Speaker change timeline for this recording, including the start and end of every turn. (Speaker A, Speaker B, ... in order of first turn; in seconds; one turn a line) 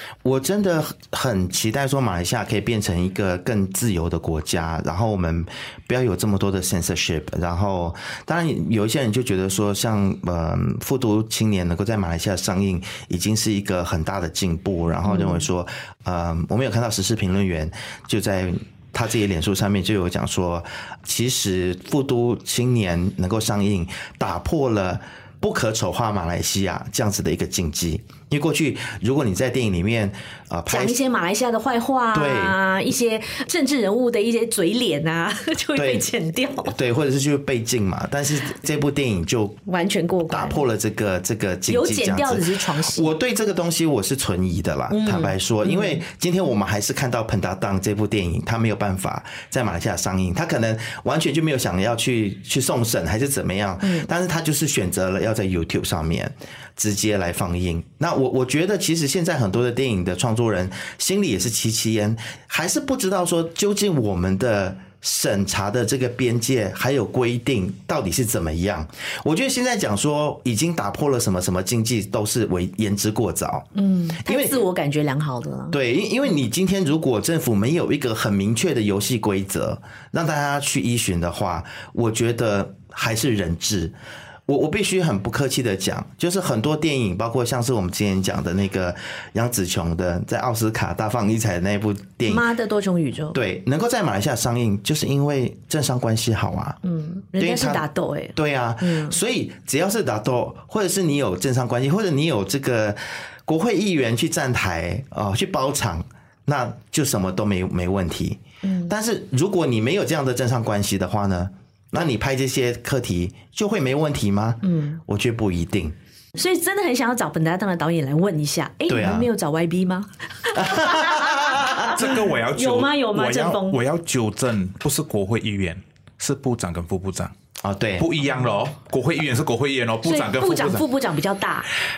Speaker A: 0.2-31.0
Speaker B: 15.1-15.4
Speaker B: 30.7-36.7
Speaker A: 32.1-32.6
Speaker A: 35.8-39.6
Speaker B: 39.7-40.6
Speaker A: 40.3-73.7
Speaker B: 41.7-43.1
Speaker B: 44.9-46.0
Speaker B: 53.8-54.1
Speaker B: 73.8-75.8
Speaker A: 74.2-74.6
Speaker A: 75.7-84.0
Speaker A: 84.5-92.5
Speaker B: 92.3-93.4
Speaker A: 93.3-96.8
Speaker B: 96.8-99.2
Speaker A: 97.4-116.0
Speaker B: 108.6-108.9
Speaker B: 114.6-115.0
Speaker B: 116.3-123.8
Speaker A: 118.9-119.3
Speaker A: 120.5-122.0
Speaker C: 121.9-127.3
Speaker A: 127.6-128.1
Speaker C: 128.0-130.9
Speaker B: 130.0-131.7